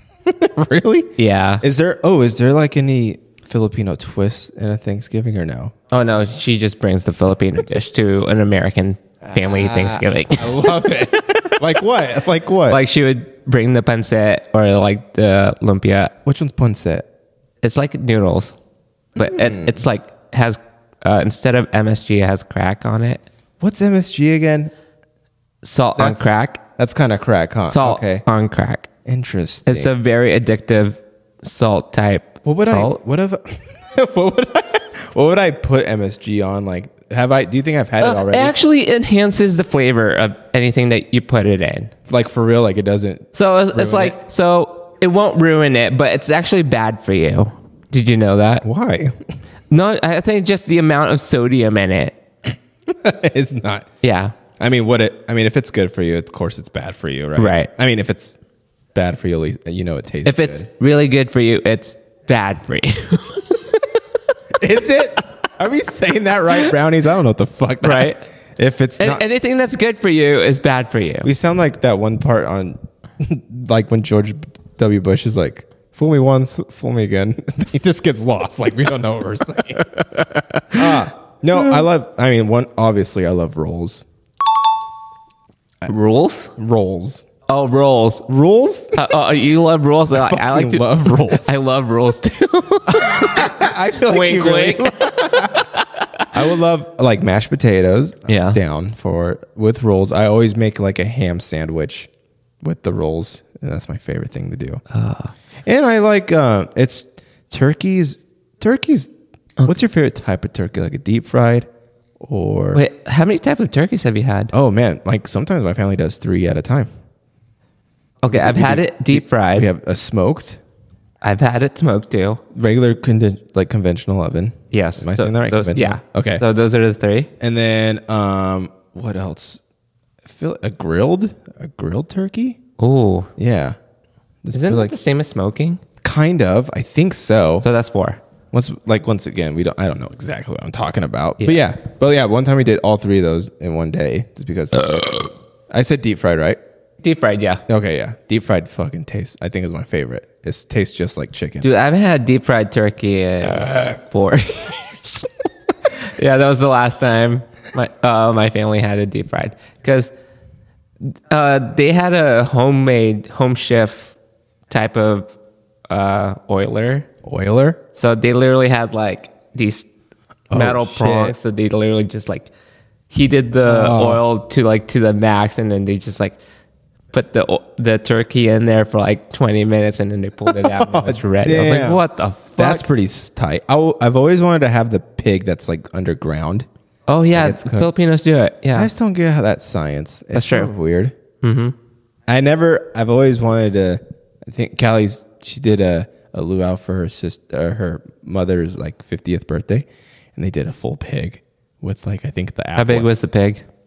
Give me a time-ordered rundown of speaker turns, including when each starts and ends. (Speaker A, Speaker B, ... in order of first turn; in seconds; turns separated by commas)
Speaker A: 0.3-5.7, Speaker B: 1.2-1.6, Speaker B: 5.9-11.5, Speaker A: 9.2-12.8, Speaker B: 12.7-16.1, Speaker A: 16.2-17.1, Speaker B: 17.6-18.6, Speaker B: 19.2-23.2, Speaker A: 19.2-19.8, Speaker A: 23.6-24.7, Speaker B: 25.6-26.6, Speaker A: 26.0-26.2, Speaker A: 26.8-28.2, Speaker B: 27.7-28.9, Speaker A: 29.1-29.9, Speaker B: 29.7-33.0, Speaker A: 32.4-38.5, Speaker B: 38.0-41.9, Speaker A: 42.1-44.2, Speaker B: 43.4-48.6, Speaker A: 48.6-49.2, Speaker B: 49.7-52.2, Speaker A: 52.9-53.9, Speaker B: 54.0-54.4, Speaker A: 54.6-58.4, Speaker B: 57.4-57.7, Speaker A: 59.0-60.7, Speaker B: 60.2-64.0, Speaker A: 64.6-69.2, Speaker B: 67.8-68.2, Speaker B: 69.0-71.3, Speaker A: 71.2-80.0, Speaker B: 80.2-81.0, Speaker A: 80.7-84.0, Speaker B: 85.9-86.5, Speaker A: 86.6-87.3, Speaker B: 87.5-88.3, Speaker A: 88.3-89.0, Speaker B: 88.9-96.2, Speaker A: 90.2-91.5, Speaker A: 92.9-95.7, Speaker A: 96.3-102.1, Speaker B: 98.3-98.6, Speaker A: 102.6-104.8, Speaker B: 104.9-105.3, Speaker A: 105.7-111.7, Speaker A: 112.2-112.8, Speaker B: 112.7-114.5, Speaker A: 114.5-116.9, Speaker B: 118.2-119.7, Speaker A: 118.3-120.6, Speaker B: 121.2-122.4, Speaker A: 122.5-126.4, Speaker B: 124.7-127.3, Speaker A: 127.4-129.6, Speaker A: 130.2-132.6, Speaker B: 132.8-133.3, Speaker A: 133.4-133.8, Speaker A: 134.4-134.9, Speaker B: 134.5-135.8, Speaker A: 136.0-137.7, Speaker B: 137.6-138.2, Speaker A: 138.5-146.6, Speaker B: 147.0-147.6, Speaker A: 147.7-151.7, Speaker B: 151.6-155.3, Speaker B: 155.8-160.1, Speaker B: 161.0-164.2, Speaker B: 164.7-165.3, Speaker B: 165.9-167.1, Speaker A: 167.2-167.8, Speaker B: 167.9-169.9, Speaker A: 170.5-171.3, Speaker B: 170.5-172.5, Speaker B: 173.1-176.4, Speaker A: 173.7-174.2, Speaker B: 177.1-182.9, Speaker A: 180.6-182.0, Speaker A: 182.6-186.7, Speaker B: 187.1-188.9, Speaker A: 187.3-187.9, Speaker A: 188.7-191.2, Speaker B: 190.3-190.7, Speaker B: 191.4-191.8, Speaker A: 192.3-203.1, Speaker B: 202.8-203.7